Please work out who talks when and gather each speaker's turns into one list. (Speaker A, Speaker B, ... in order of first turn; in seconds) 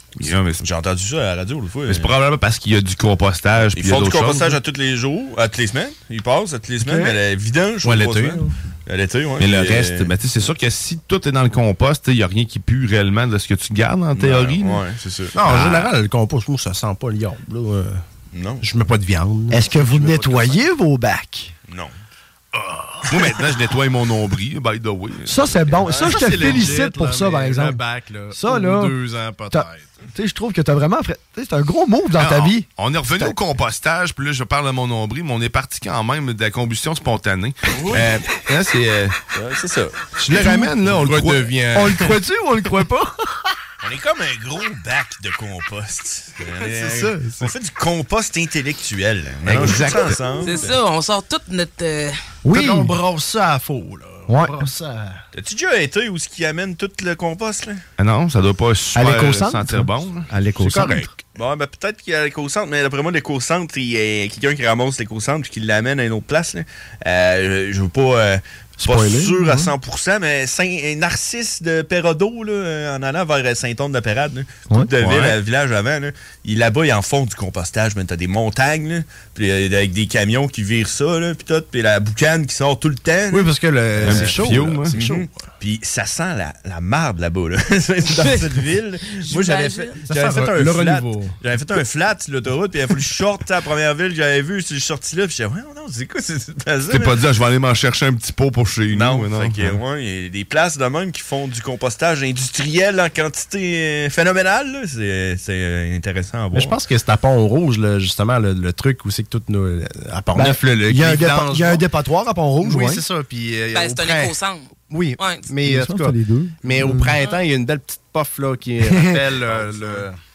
Speaker A: 0.2-0.6, 1.9-4.6, 9.4-14.8, 15.5-15.9, 23.1-25.7, 32.2-39.1, 40.2-41.5, 49.4-50.2, 58.0-61.1, 75.0-75.4, 84.0-84.9, 96.9-99.8
Speaker B: 0.6-2.1, 3.7-10.1, 14.1-15.3, 18.3-18.6, 39.3-40.0, 43.8-50.8, 55.3-57.8, 61.4-84.4, 84.9-97.2, 98.9-106.8, 119.6-120.0
Speaker C: 6.8-7.2, 19.5-21.5, 25.2-29.0, 29.5-33.4, 41.7-43.3, 52.4-53.0, 54.3-54.7, 58.9-59.9, 68.8-69.7, 110.3-113.1, 115.6-117.2, 118.8-119.2
Speaker D: 7.8-8.5, 15.3-18.0, 18.6-20.6, 22.5-23.0, 25.8-29.9, 40.3-42.1, 46.7-47.4, 52.5-55.2, 60.5-61.1, 83.3-85.4, 90.1-91.3, 106.5-111.8, 112.6-114.3, 114.9-120.2
Speaker E: 50.4-52.2, 89.2-90.0, 113.7-115.5